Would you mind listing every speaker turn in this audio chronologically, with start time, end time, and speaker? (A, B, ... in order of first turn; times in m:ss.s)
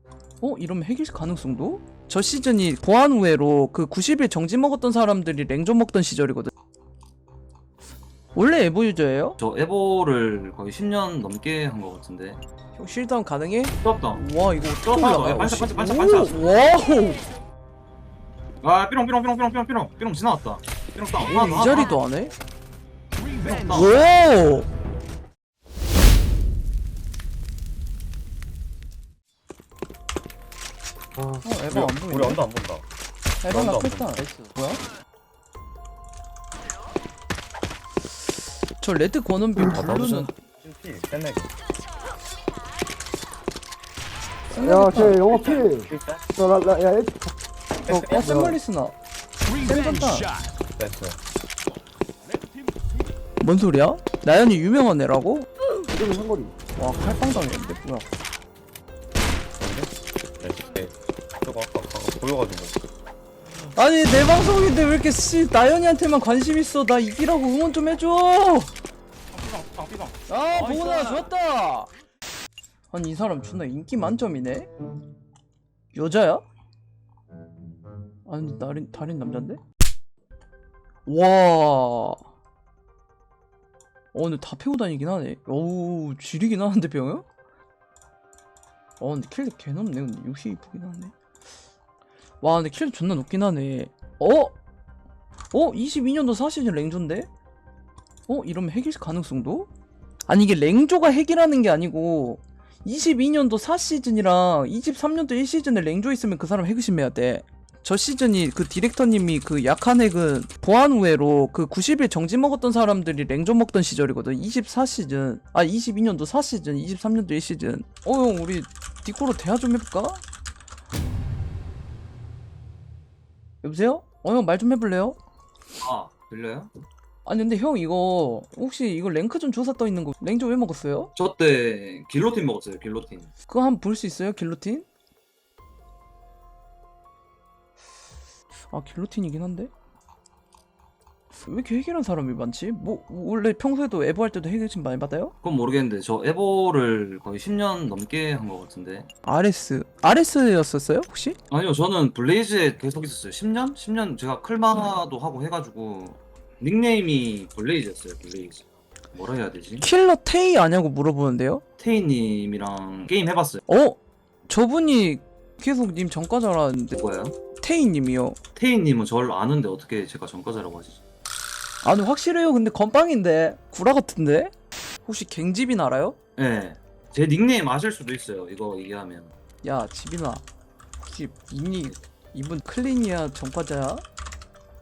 0:00.4-0:06.5 A
0:08.4-0:09.4 A
0:09.4-0:12.4 B
0:12.8-0:17.2 A
0:13.8-0:14.2 B
0:14.8-0:16.6 B
0:18.6-0:22.0 B
0:21.2-0:22.4 A
0:23.4-0:24.0 B
0:23.5-0:24.7 A
0:31.2-0:32.8 C
0:31.4-0:32.4 A
0:33.4-0:34.8 A
0:33.5-0:34.2 C
0:38.8-0:40.3 A
0:39.7-0:41.5 C
0:44.5-0:45.6 A
0:44.6-0:47.2 D
0:47.9-0:48.9 A
0:48.0-0:48.5 D
0:49.5-0:50.3 A
0:50.8-0:51.2 C
0:53.4-0:55.5 A
0:56.2-0:56.5 D
0:56.8-0:58.1 A
0:59.6-1:02.8 C
1:03.7-1:08.7 A
1:10.3-1:11.9 A
1:12.9-1:14.7 A
1:15.9-1:16.4 A
1:18.3-1:19.6 A
1:21.1-1:22.2 A
1:24.1-1:27.3 A
1:29.0-1:31.1 A
1:32.4-1:34.6 A
1:35.5-1:37.3 A
1:38.3-1:39.7 A
1:40.3-2:00.2 A
2:03.6-2:05.2 A
2:05.8-2:06.7 B
2:07.2-2:11.1 A
2:11.2-2:13.3 B
2:13.5-2:14.9 A
2:18.7-2:19.7 A
2:21.4-2:25.3 A
2:25.4-2:29.1 B
2:29.2-2:31.4 A
2:31.5-2:39.8 B
2:39.8-2:41.6 A
2:41.8-2:43.6 B
2:43.7-2:47.0 A
2:46.9-2:47.4 B
2:47.6-2:48.4 A
2:48.6-2:51.0 B
2:51.8-2:54.5 A
2:55.0-2:56.2 A
2:56.4-2:59.3 B
2:59.6-3:00.4 A
3:01.0-3:04.0 A